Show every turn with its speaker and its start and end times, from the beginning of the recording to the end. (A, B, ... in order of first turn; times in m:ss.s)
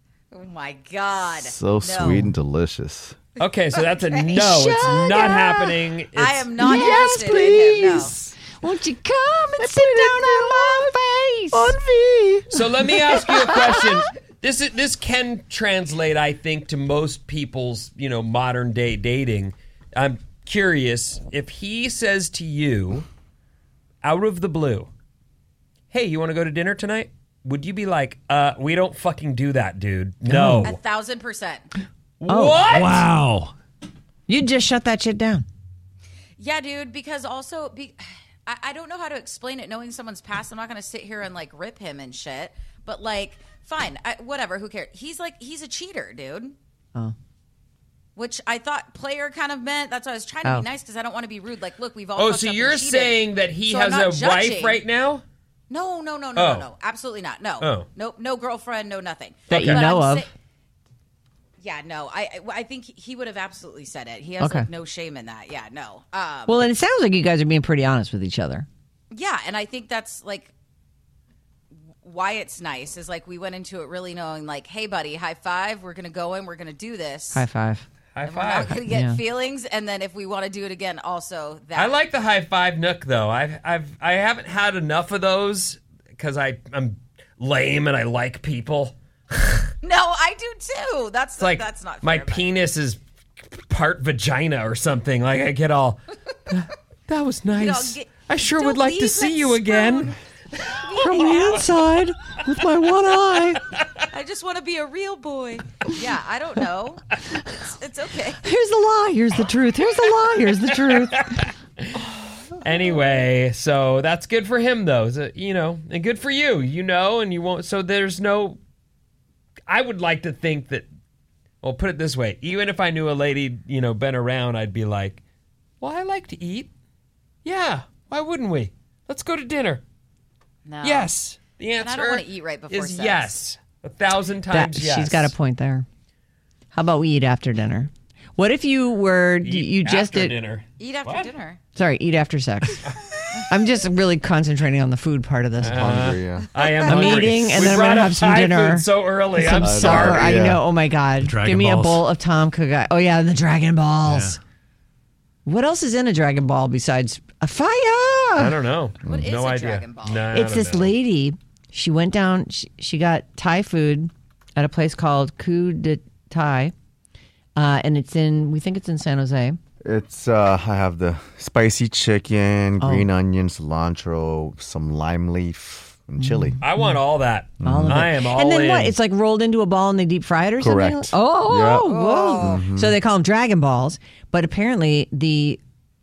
0:00.3-0:02.3 A
0:01.4-0:03.2 B
0:03.4-0:06.5 C
0:03.4-0:05.3 A
0:04.4-0:05.7 D
0:06.1-0:08.1 A
0:06.6-0:11.8 D
0:06.6-0:08.3 B
0:09.6-0:11.0 B
0:11.5-0:12.5 B
0:12.5-0:23.1 C
0:13.1-0:13.9 D
0:24.0-0:24.9 C
0:25.9-0:30.8 C
0:30.3-0:30.6 D
0:30.3-0:30.7 E
0:30.6-0:31.7 A
0:32.2-0:33.1 C
0:32.3-0:32.6 D
0:32.6-0:33.5 E
0:34.3-0:35.5 D
0:36.4-0:46.6 A
0:48.2-0:54.8 A
0:52.2-0:55.2 C
0:55.7-1:00.3 A
0:56.4-0:56.7 C
0:57.6-0:57.9 C
0:59.5-0:59.8 C
0:59.5-1:00.3 D
1:01.6-1:06.7 A
1:04.4-1:04.7 D
1:06.5-1:08.7 D
1:09.1-1:10.5 A
1:12.0-1:17.5 A
1:17.3-1:17.9 D
1:18.2-1:18.8 C
1:18.2-1:22.0 A
1:18.9-1:19.2 D
1:21.8-1:29.7 C
1:29.8-1:32.5 A
1:31.4-1:33.0 C
1:33.5-1:40.2 C
1:37.5-1:40.2 A
1:40.8-1:41.6 A
1:40.9-1:41.5 C
1:41.0-1:43.6 D
1:44.1-1:47.0 A
1:47.6-1:48.4 A
1:48.4-1:51.4 D
1:50.7-1:52.0 C
1:52.6-1:58.6 C
1:59.7-2:00.8 C
2:01.6-2:05.2 C
2:05.8-2:06.7 C
2:07.4-2:09.8 C
2:10.6-2:11.1 A
2:10.8-2:15.3 C
2:11.8-2:13.4 A
2:14.5-2:15.9 D
2:16.7-2:20.4 D
2:19.4-2:21.3 C
2:20.8-2:21.6 A
2:21.8-2:22.9 D
2:23.5-2:26.0 D
2:25.6-2:26.5 B
2:25.6-2:30.4 C
2:26.9-2:34.4 D
2:29.6-2:30.6 B
2:31.2-2:32.1 E
2:34.1-2:34.4 E
2:35.5-2:38.6 D
2:38.4-2:40.9 C
2:39.0-2:40.3 A
2:40.3-2:46.7 D
2:47.6-2:49.6 D
2:49.8-2:56.6 B
2:52.8-2:53.1 D
2:56.2-2:57.0 D
2:56.6-2:59.0 C
2:57.6-2:58.1 B
2:57.6-3:05.6 D
3:00.6-3:01.9 B
3:01.8-3:02.6 A
3:02.4-3:03.0 B